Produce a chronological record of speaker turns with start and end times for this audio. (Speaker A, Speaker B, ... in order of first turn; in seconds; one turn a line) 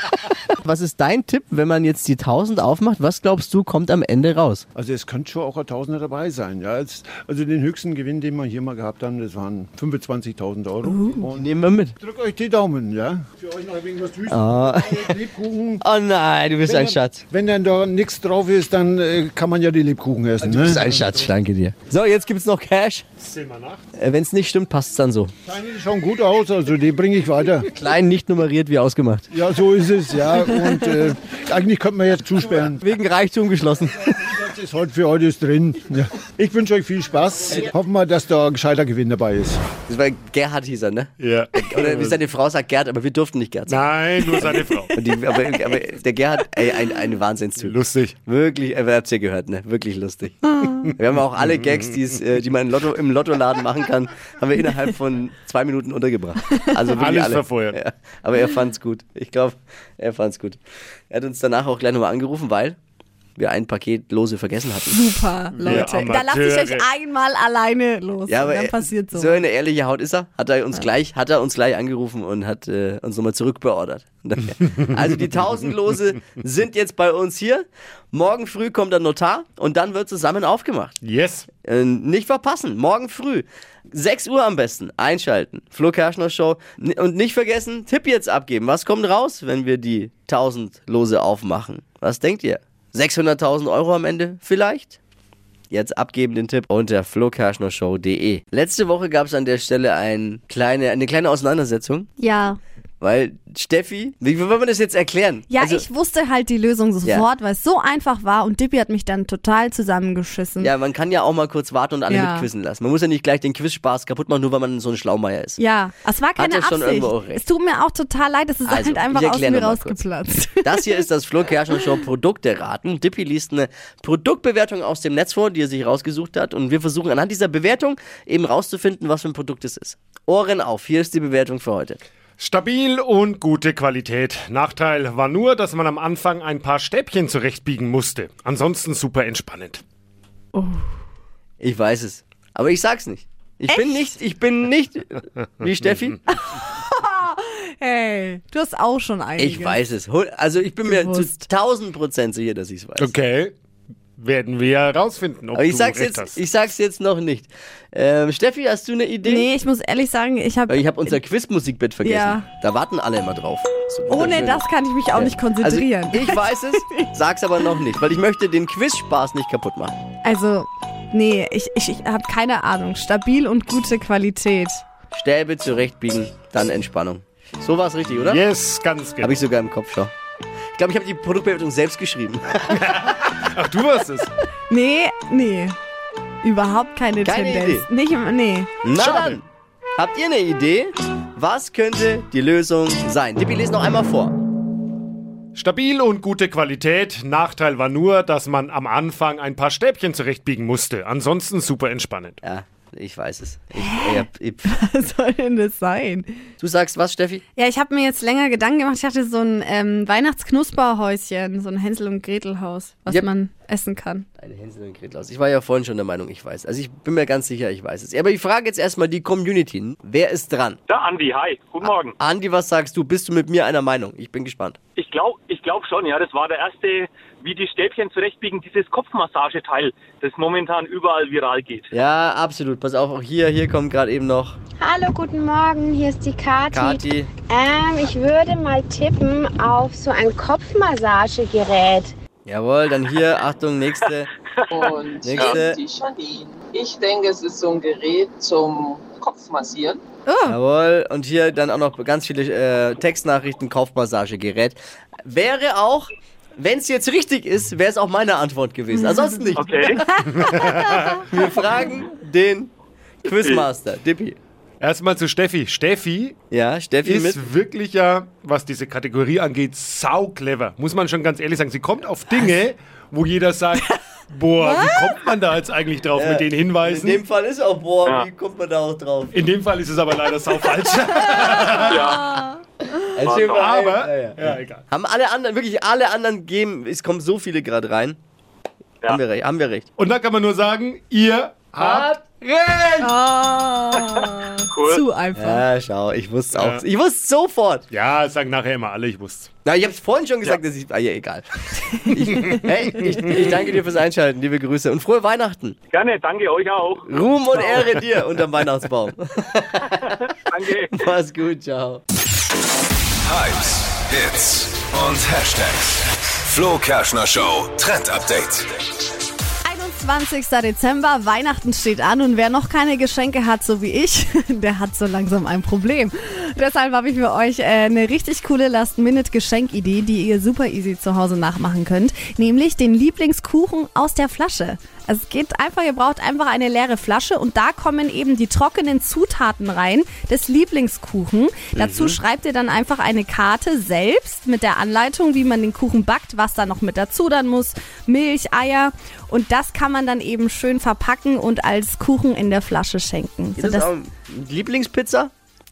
Speaker A: 0.6-4.7
Speaker B: 4.8-11.5
Speaker C: 10.9-11.2
Speaker A: 11.4-11.9
Speaker B: 12.0-15.8
Speaker A: 14.3-15.2
Speaker A: 15.8-17.2
Speaker B: 16.6-20.8
Speaker A: 20.4-23.1
Speaker D: 20.9-21.3
Speaker D: 23.2-23.9
Speaker A: 24.0-25.3
Speaker B: 25.5-27.7
Speaker A: 27.7-29.3
Speaker B: 29.3-32.8
Speaker A: 32.8-34.2
Speaker B: 34.1-39.6
Speaker A: 39.9-62.8
Speaker D: 41.2-42.2
Speaker D: 43.7-45.0
Speaker D: 47.6-48.1
Speaker D: 56.9-57.8
Speaker A: 63.4-65.9
Speaker C: 64.9-69.4
Speaker D: 65.6-66.9
Speaker A: 68.3-81.0
Speaker D: 81.0-81.5
Speaker A: 81.6-95.0
Speaker A: 95.7-102.1
Speaker C: 102.2-102.6
Speaker A: 103.0-105.9
Speaker C: 105.5-110.7
Speaker A: 110.6-115.6
Speaker C: 112.1-112.5
Speaker C: 115.6-121.1
Speaker A: 116.4-117.4
Speaker A: 118.7-120.0
Speaker A: 120.6-132.0
Speaker D: 132.4-139.8
Speaker C: 140.6-140.9
Speaker A: 141.6-146.2
Speaker C: 143.7-143.9
Speaker C: 146.3-149.8
Speaker A: 149.4-153.1
Speaker C: 150.8-151.4
Speaker D: 153.0-153.5
Speaker D: 154.2-156.4
Speaker A: 155.5-159.5
Speaker C: 159.2-161.2
Speaker A: 160.7-169.9
Speaker C: 162.0-162.5
Speaker C: 164.1-167.1
Speaker C: 170.2-174.8
Speaker A: 175.1-178.4
Speaker D: 178.2-179.3
Speaker A: 179.2-180.1
Speaker A: 180.8-183.0
Speaker D: 182.7-184.3
Speaker C: 184.7-185.8
Speaker C: 186.4-188.7
Speaker A: 187.2-187.9
Speaker A: 188.8-189.4
Speaker D: 188.9-189.4
Speaker A: 190.0-194.4
Speaker D: 195.6-202.4
Speaker A: 202.4-204.7
Speaker C: 203.8-206.3
Speaker A: 206.6-207.4
Speaker C: 207.6-214.3
Speaker A: 214.4-220.8
Speaker E: 220.9-222.2
Speaker A: 221.8-224.8
Speaker E: 225.0-231.9
Speaker A: 231.9-234.6
Speaker F: 234.8-242.2
Speaker A: 236.7-237.3
Speaker A: 242.5-244.3
Speaker G: 244.7-250.0
Speaker A: 245.2-245.8
Speaker E: 245.4-245.6
Speaker C: 250.3-250.6
Speaker A: 250.4-260.0
Speaker E: 259.6-260.0
Speaker D: 260.3-261.2
Speaker A: 261.2-262.7
Speaker A: 263.2-264.4
Speaker D: 264.8-266.4
Speaker A: 266.5-267.4
Speaker D: 267.0-277.2
Speaker C: 274.6-274.9
Speaker A: 276.1-279.4
Speaker D: 279.3-282.1
Speaker E: 281.8-282.4
Speaker A: 283.1-288.2
Speaker E: 283.2-283.7
Speaker D: 283.3-284.8
Speaker A: 289.1-289.9
Speaker D: 290.0-292.4
Speaker A: 291.8-293.1
Speaker C: 293.0-295.6
Speaker E: 294.7-295.0
Speaker A: 295.4-297.9
Speaker D: 296.6-296.8
Speaker D: 297.9-299.5
Speaker A: 299.6-305.8
Speaker E: 305.9-307.1
Speaker A: 307.1-310.2
Speaker E: 310.0-311.0
Speaker A: 310.8-312.0
Speaker H: 313.2-318.7
Speaker C: 319.6-353.9
Speaker A: 341.8-342.2
Speaker A: 353.6-355.3